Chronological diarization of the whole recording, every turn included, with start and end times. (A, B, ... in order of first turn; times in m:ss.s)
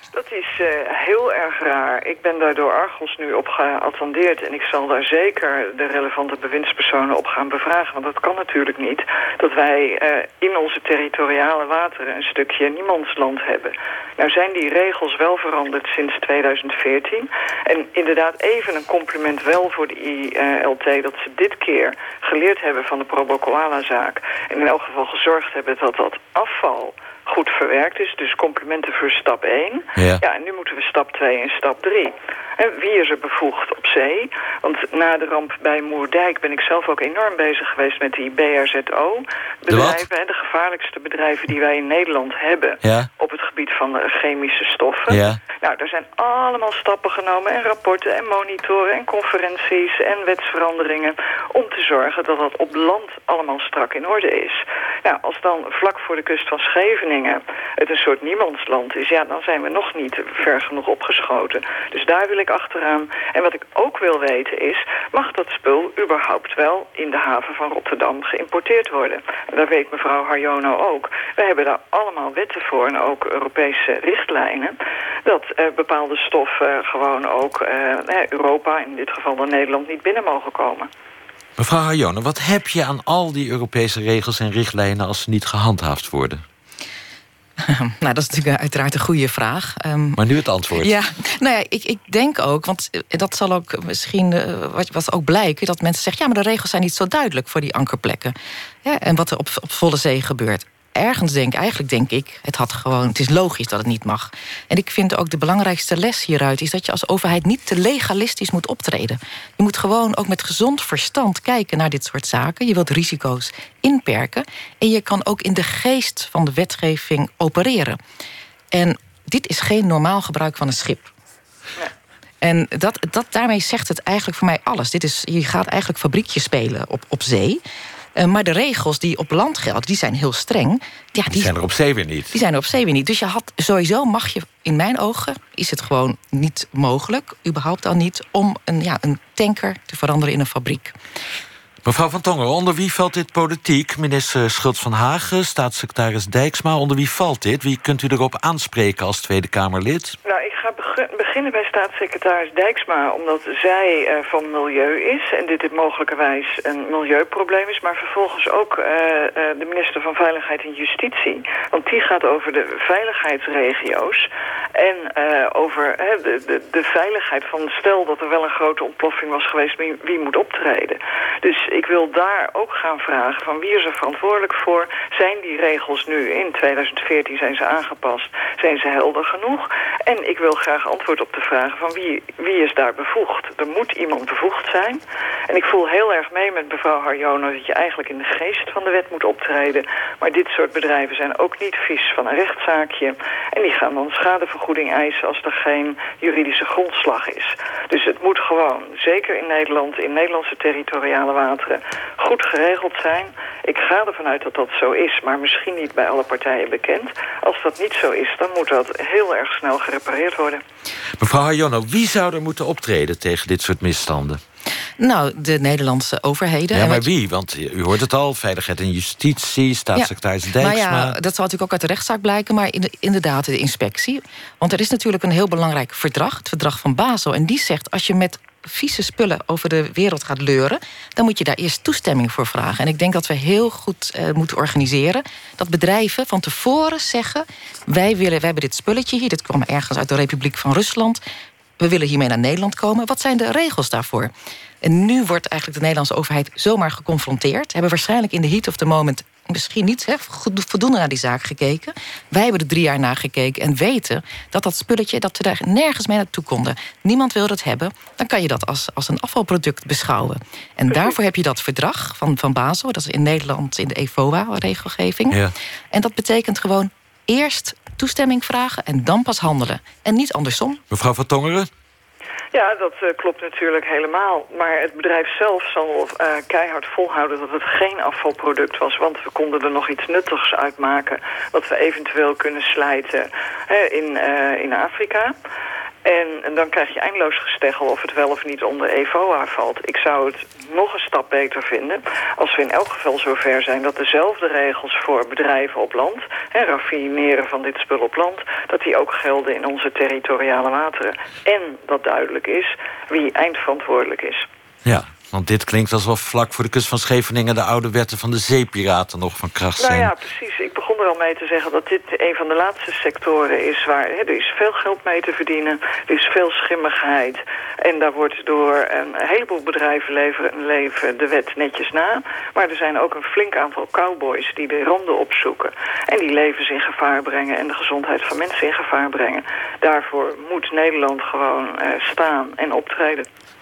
0:00.1-1:20.9 A
0:30.0-0:30.2 B
0:39.7-0:40.0 B
0:42.8-0:43.1 B
0:45.1-0:45.4 B
1:21.6-1:26.4 B
1:27.6-1:30.2 C
1:30.2-1:30.9 B
1:30.8-1:58.0 C
1:58.7-2:01.1 C
2:02.4-2:07.6 C
2:08.2-2:11.6 C
2:11.3-2:12.4 B
2:12.3-2:21.0 C
2:21.8-2:30.2 B
2:30.2-3:30.6 A
3:31.2-3:34.4 B
3:35.0-3:37.1 C
3:36.7-3:41.2 B
3:40.0-4:01.2 C
4:01.8-4:25.4 C
4:25.9-4:30.8 C
4:30.9-4:31.7 B
4:32.5-4:45.3 A
4:46.0-5:04.5 A
5:04.8-5:10.1 B
5:09.8-5:33.2 A